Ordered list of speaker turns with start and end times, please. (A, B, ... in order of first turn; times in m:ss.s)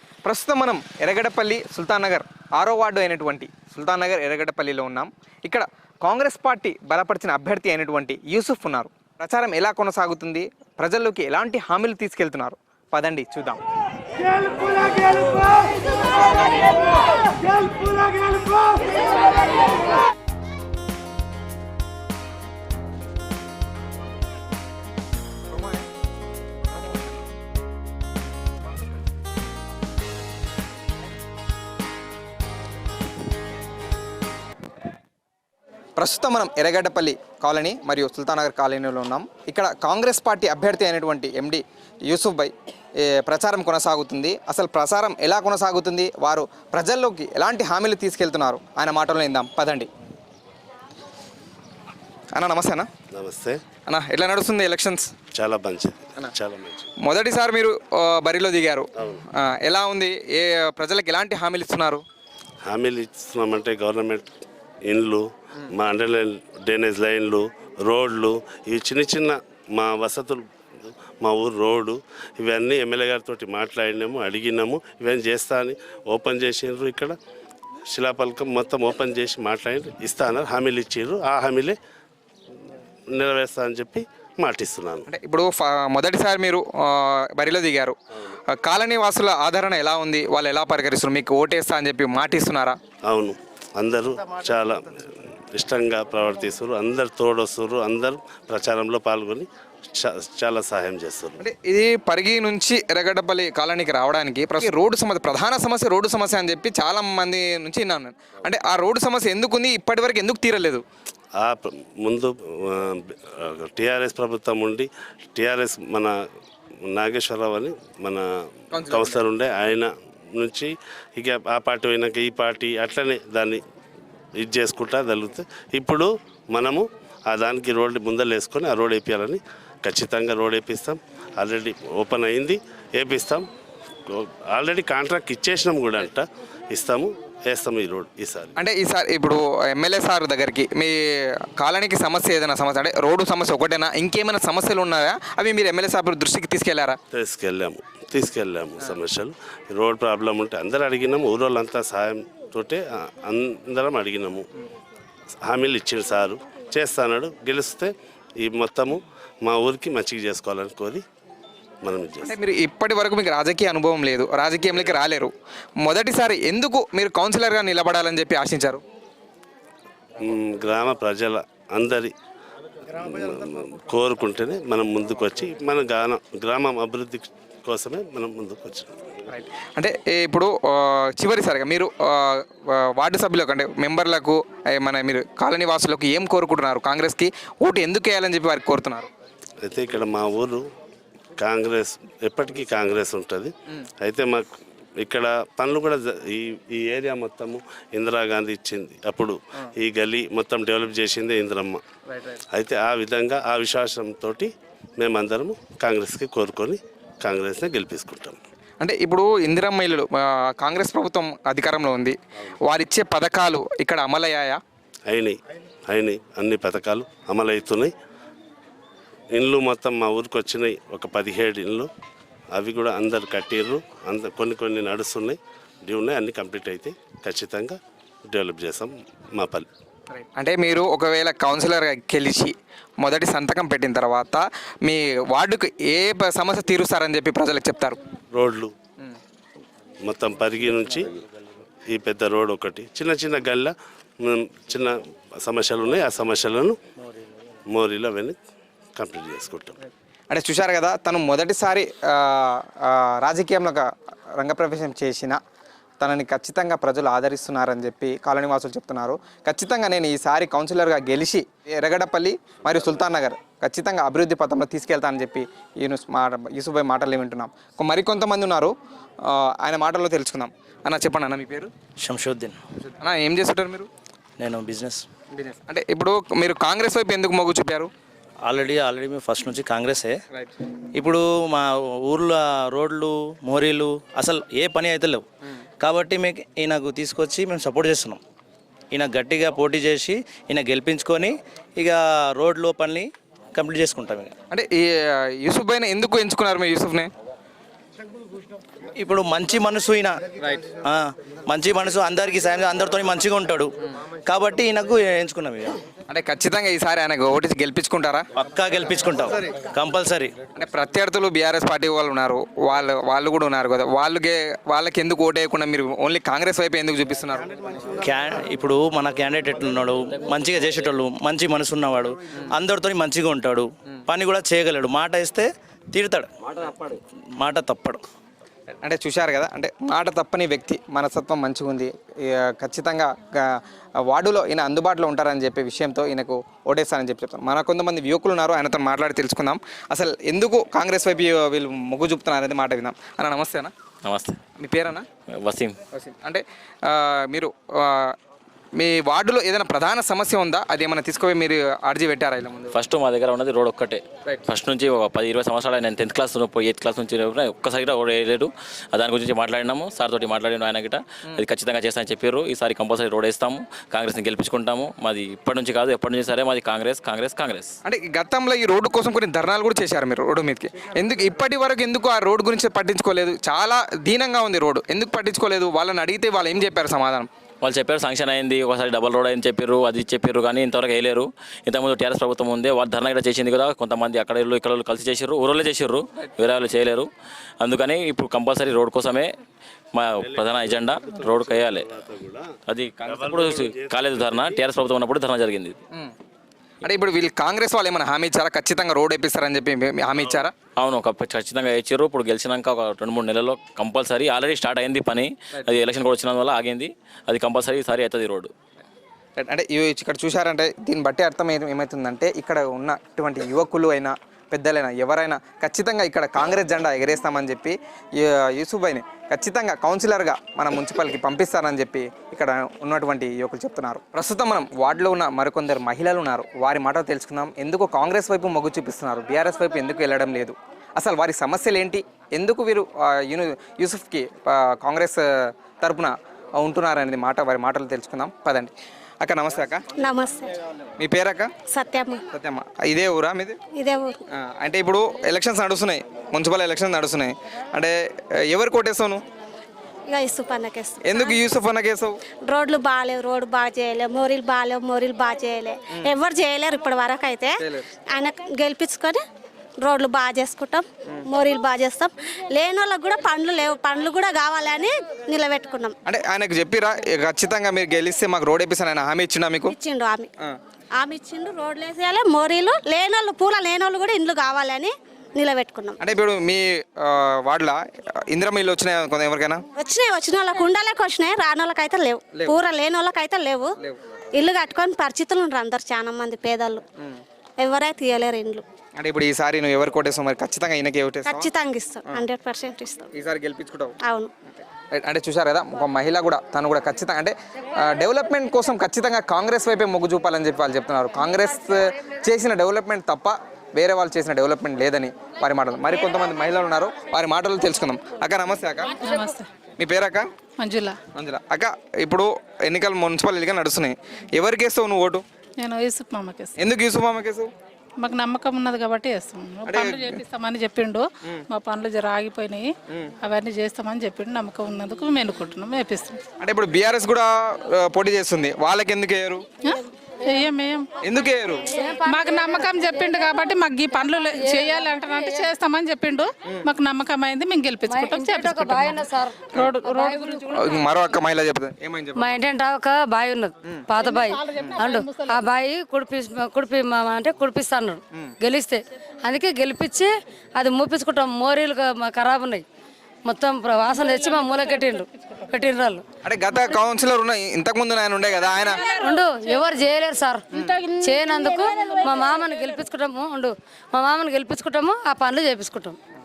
0:00.2-0:13.6 A
0:36.0-0:42.5 A
0:43.1-0:49.9 A
0:52.3-0:52.9 A
0:53.1-0:53.6 B
0:53.9-0:55.1 A
0:55.3-0:56.9 B
0:57.0-1:02.0 A
0:59.0-0:59.2 B
1:02.7-1:04.3 B
1:04.9-1:17.2 B
1:17.9-1:21.8 B
1:23.1-1:25.0 B
1:25.1-1:28.0 A
1:28.6-1:32.8 A
1:33.0-1:41.4 B
1:41.4-1:50.8 A
1:51.4-1:56.1 B
1:56.9-1:58.2 B
1:58.7-1:59.2 A
1:58.8-2:03.6 B
2:04.4-2:13.5 B
2:14.1-2:18.5 B
2:18.6-2:27.0 A
2:27.1-2:34.4 B
2:35.4-2:41.0 B
2:41.8-2:42.3 B
2:42.2-2:45.3 A
2:45.8-2:48.8 A
2:50.2-2:52.1 B
2:53.0-2:59.0 B
2:59.3-3:09.1 A
3:09.6-3:10.6 B
3:11.4-3:14.4 B
3:15.0-3:21.8 B
3:22.5-3:28.4 B
3:28.8-3:34.6 A
3:35.1-3:35.4 B
3:35.9-3:37.9 B
3:39.3-3:41.9 B
3:42.5-3:49.7 B
3:50.1-3:58.0 A
3:58.3-3:58.7 B
4:00.0-4:01.2 B
4:01.9-4:06.8 B
4:07.7-4:08.4 B
4:09.0-4:09.8 B
4:10.3-4:13.9 A
4:14.4-4:15.4 A
4:16.0-4:31.7 A
4:32.0-4:32.6 C
4:33.0-4:33.9 A
4:34.4-4:35.1 C
4:35.3-4:37.9 A
4:38.4-4:40.2 C
4:41.0-4:45.2 C
4:45.8-4:48.2 C
4:48.9-4:54.4 C
4:54.5-4:57.1 A
4:59.0-5:03.8 C
5:04.3-5:05.8 C
5:06.1-5:08.3 A
5:08.4-5:10.3 C
5:10.6-5:17.5 A
5:18.0-5:28.0 C
5:28.8-5:43.7 A
5:44.0-5:44.4 D
5:44.6-5:45.1 A
5:45.3-5:45.8 D
5:45.9-5:48.2 A
5:48.8-5:52.8 A
5:52.7-6:07.7 D
6:07.8-6:17.3 A
6:17.6-6:27.1 D
6:27.6-6:29.3 D
6:29.9-6:31.9 D
6:30.2-6:32.5 B
6:32.7-6:35.8 D
6:33.0-6:34.6 B
6:36.8-6:40.5 A
6:40.8-6:48.5 D
6:49.4-7:19.9 A
7:20.0-7:20.6 E
7:21.0-7:21.5 A
7:21.7-7:22.3 E
7:22.3-7:23.6 A
7:23.8-7:24.2 E
7:24.3-7:29.2 A
7:30.1-7:31.4 E
7:31.0-7:32.2 A
7:32.4-7:39.2 E
7:37.6-7:37.9 A
7:39.8-7:46.0 E
7:46.0-7:49.8 A
7:49.7-7:50.3 E
7:51.0-7:56.0 E
7:56.0-7:59.6 A
7:59.8-8:03.8 E
8:04.3-8:06.8 E
8:07.6-8:08.6 E
8:09.0-8:11.5 A
8:11.2-8:13.1 E
8:13.1-8:14.0 A
8:14.0-8:14.3 E
8:14.5-8:29.0 A
8:29.0-8:29.5 F
8:29.8-8:30.3 A
8:30.6-8:31.0 F
8:31.2-8:35.2 A
8:35.6-8:36.5 F
8:36.6-8:37.5 A
8:38.0-8:42.7 F
8:39.7-8:40.2 A
8:43.2-8:46.2 F
8:46.4-8:49.4 A
8:49.6-8:50.9 F
8:51.0-8:51.7 A
8:51.7-8:55.5 G
8:52.1-9:00.8 F
8:57.8-9:00.7 G
9:00.5-9:02.4 A
9:02.2-9:12.6 G
9:04.0-9:05.4 F
9:13.2-9:16.0 G
9:14.1-9:15.3 F
9:16.2-9:18.9 A
9:18.8-9:26.0 G